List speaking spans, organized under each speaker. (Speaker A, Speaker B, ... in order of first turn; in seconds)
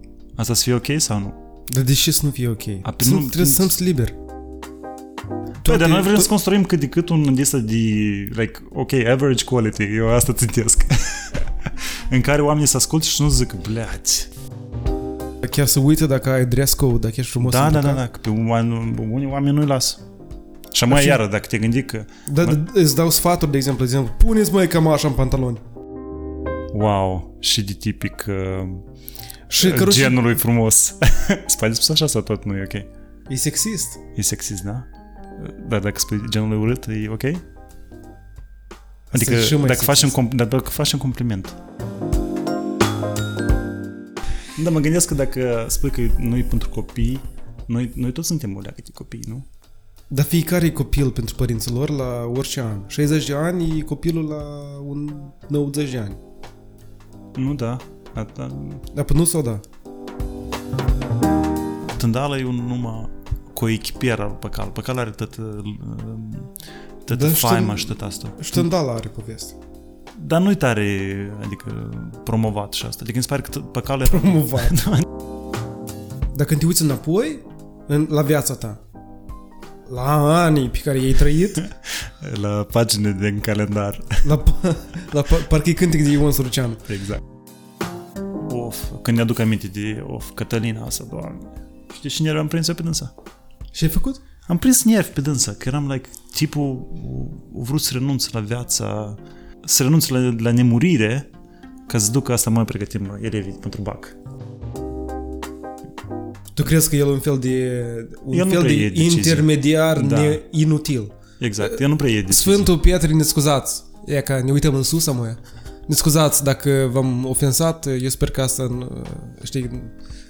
Speaker A: 0.4-1.4, 2.8-3.8, 5.6-14.3, 17.4-20.0, 20.7-22.6, 26.7-28.8, 29.6-32.9, 34.1-37.4, 39.1-41.6, 44.6-49.5, 57.4-58.9, 61.9-66.5, 67.0-68.7, 70.2-75.0, 82.0-84.2, 86.9-87.2, 88.5-93.1, 94.5-101.3, 101.9-104.2, 108.3-110.4, 111.4-112.7
Speaker B: 1.7-4.2, 5.6-6.3, 15.4-18.0, 20.9-21.2, 22.3-25.6, 29.5-30.2, 33.3-34.0, 39.1-40.2, 50.1-56.2, 58.9-59.6, 67.1-69.6, 74.0-74.9, 76.3-78.8, 79.9-81.7, 84.2-86.9, 93.7-94.2, 106.5-119.9